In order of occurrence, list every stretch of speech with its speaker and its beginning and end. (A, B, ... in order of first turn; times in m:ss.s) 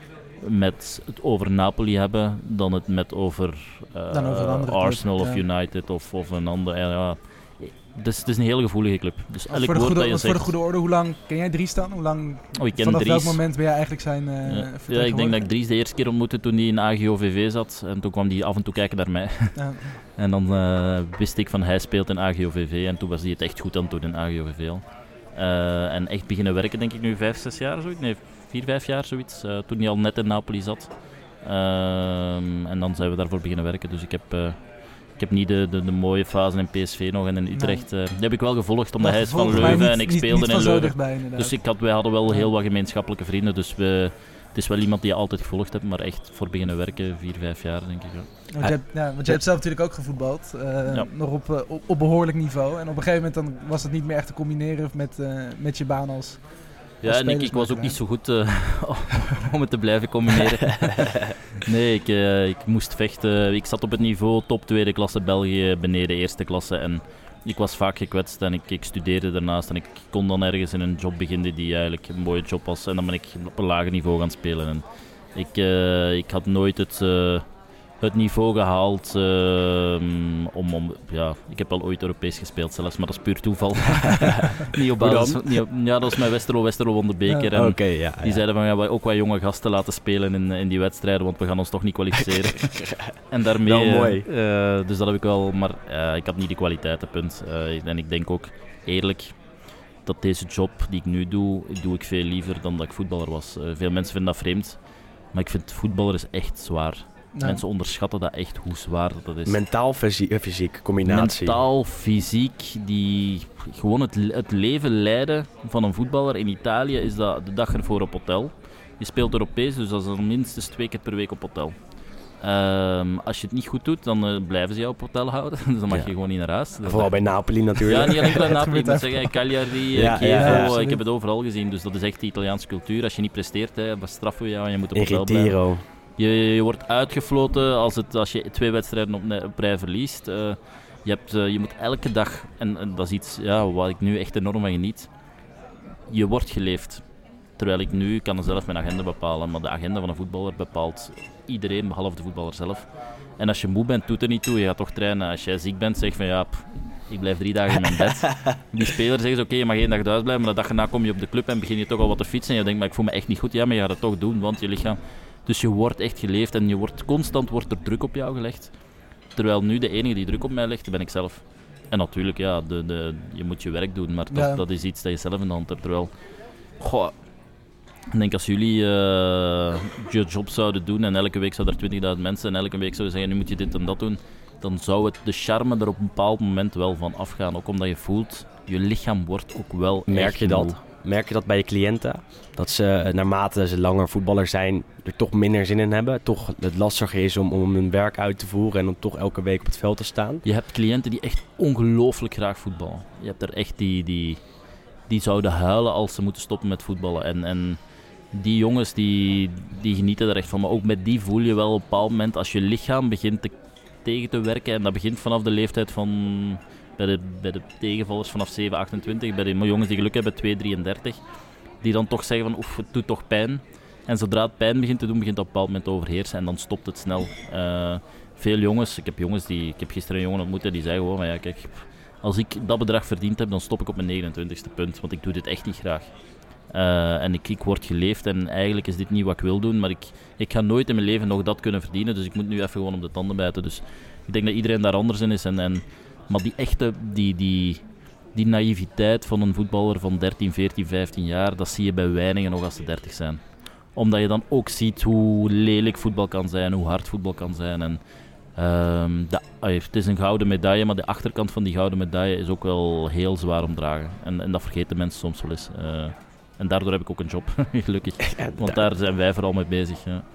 0:00.4-0:10.5 A
0:04.1-0:05.4 B
0:09.5-0:15.4 B
0:12.6-0:13.4 A
0:14.4-0:49.4 A
0:19.5-0:20.0 B
0:37.5-0:37.9 B
0:39.0-0:42.5 B
0:48.5-0:58.0 B
0:57.0-1:49.6 A
1:25.0-1:25.6 C
1:27.5-1:28.4 C
1:32.6-1:34.3 C
1:47.3-1:47.6 B
1:49.5-1:51.6 C
1:51.0-2:15.6 A
2:05.9-2:08.5 C
2:08.2-2:09.7 B
2:09.9-2:10.8 C
2:10.3-2:11.0 B
2:14.9-2:15.8 C
2:16.2-2:25.1 A
2:26.1-2:27.0 A
2:27.6-2:57.2 A
2:54.3-2:54.6 B
2:58.1-3:10.8 A
3:10.1-3:20.4 C
3:20.4-3:24.4 A
3:25.0-3:41.2 A
3:41.8-4:30.2 A
4:28.3-4:28.9 C